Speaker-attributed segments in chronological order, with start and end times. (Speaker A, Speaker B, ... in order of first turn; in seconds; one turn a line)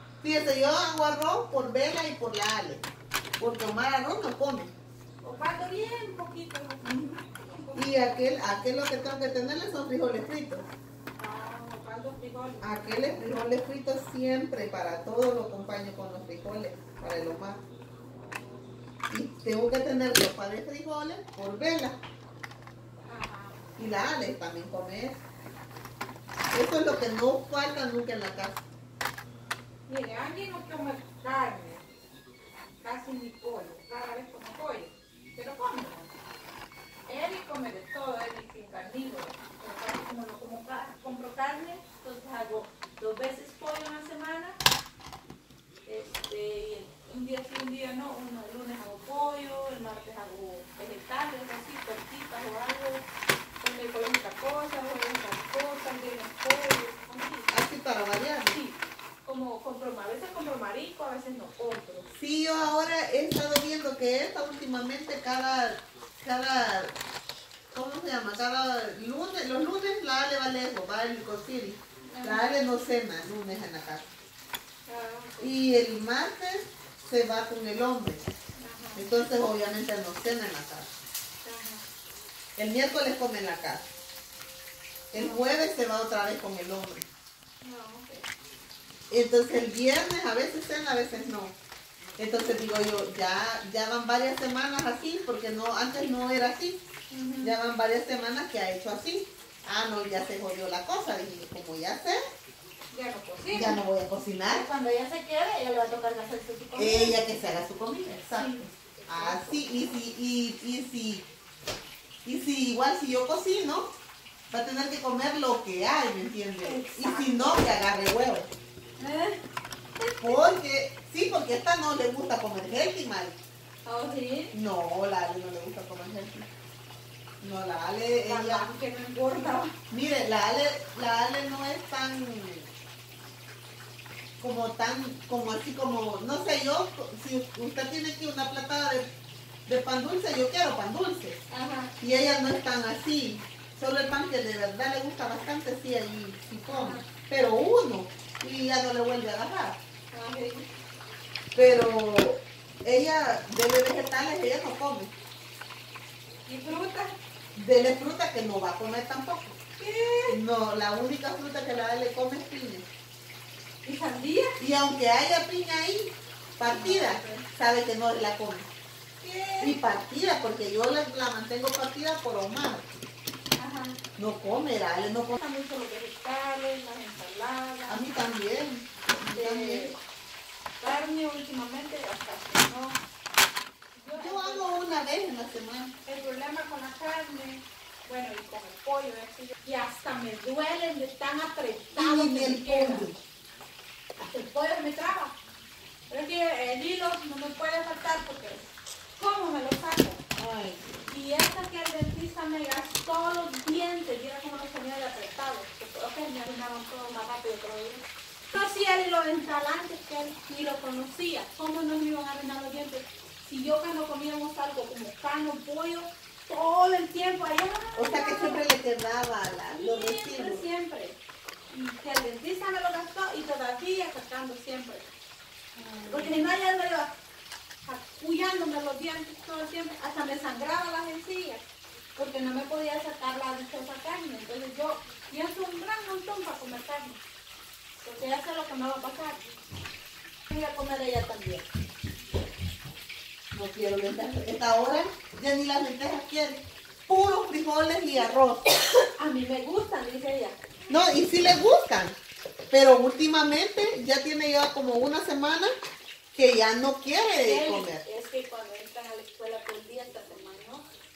Speaker A: 0.2-2.9
Speaker A: 3.4-4.7
Speaker B: 5.2-8.1
Speaker A: 6.8-7.1
Speaker A: 7.8-10.7
Speaker B: 11.2-13.1
Speaker A: 12.6-17.6
Speaker A: 19.1-22.0
Speaker B: 23.0-23.6
Speaker A: 23.8-25.2
Speaker A: 26.5-28.6
Speaker B: 29.9-31.8
Speaker B: 32.8-36.1
Speaker B: 37.0-44.6
Speaker B: 45.9-53.0
Speaker B: 53.6-57.5
Speaker A: 57.5-58.6
Speaker B: 58.5-62.1
Speaker A: 62.1-67.0
Speaker A: 67.7-74.1
Speaker B: 72.1-72.5
Speaker B: 74.9-75.5
Speaker A: 75.4-78.2
Speaker B: 78.6-79.0
Speaker A: 78.9-80.9
Speaker B: 81.4-81.8
Speaker A: 82.5-83.8
Speaker A: 85.1-87.0
Speaker B: 85.1-85.4
Speaker B: 87.6-88.3
Speaker A: 89.1-91.6
Speaker A: 92.2-96.8
Speaker B: 97.1-97.6
Speaker A: 97.4-102.2
Speaker B: 102.9-103.8
Speaker A: 103.5-104.7
Speaker B: 104.5-107.2
Speaker A: 106.7-111.3
Speaker B: 108.3-109.7
Speaker A: 112.2-113.9
Speaker A: 114.5-118.5
Speaker B: 116.6-117.7
Speaker B: 119.0-119.4
Speaker B: 120.0-120.4
Speaker A: 120.2-123.4
Speaker B: 123.8-124.5
Speaker A: 124.5-126.5
Speaker A: 127.4-128.7
Speaker B: 128.2-129.7
Speaker A: 129.9-132.7
Speaker A: 134.4-139.1
Speaker A: 139.7-141.4
Speaker B: 141.5-141.9
Speaker A: 142.0-149.8
Speaker B: 146.7-147.1
Speaker B: 150.1-150.7
Speaker A: 151.5-155.1
Speaker B: 156.5-157.1
Speaker A: 157.6-159.6
Speaker B: 159.8-160.4
Speaker A: 160.3-162.9
Speaker B: 163.8-164.6
Speaker A: 164.6-168.7
Speaker B: 166.7-167.4
Speaker B: 169.2-169.8
Speaker A: 169.6-172.9
Speaker B: 173.6-174.0
Speaker A: 174.2-175.4
Speaker B: 175.4-178.1
Speaker A: 177.9-180.0
Speaker B: 179.3-180.0
Speaker B: 180.8-183.0
Speaker B: 184.0-184.8
Speaker A: 184.1-186.0
Speaker B: 186.1-193.1
Speaker A: 192.0-193.2
Speaker B: 194.2-195.3
Speaker B: 196.1-200.2
Speaker A: 200.4-200.8
Speaker B: 201.1-218.7
Speaker A: 218.0-220.7
Speaker B: 219.7-221.2
Speaker B: 221.7-225.1
Speaker A: 225.8-226.4
Speaker B: 226.1-227.2
Speaker B: 227.8-237.2
Speaker B: 238.0-239.4
Speaker B: 240.5-241.7
Speaker A: 243.5-248.7
Speaker B: 249.2-250.6
Speaker A: 250.9-252.2
Speaker A: 252.7-255.7
Speaker A: 256.3-258.1
Speaker B: 257.4-260.9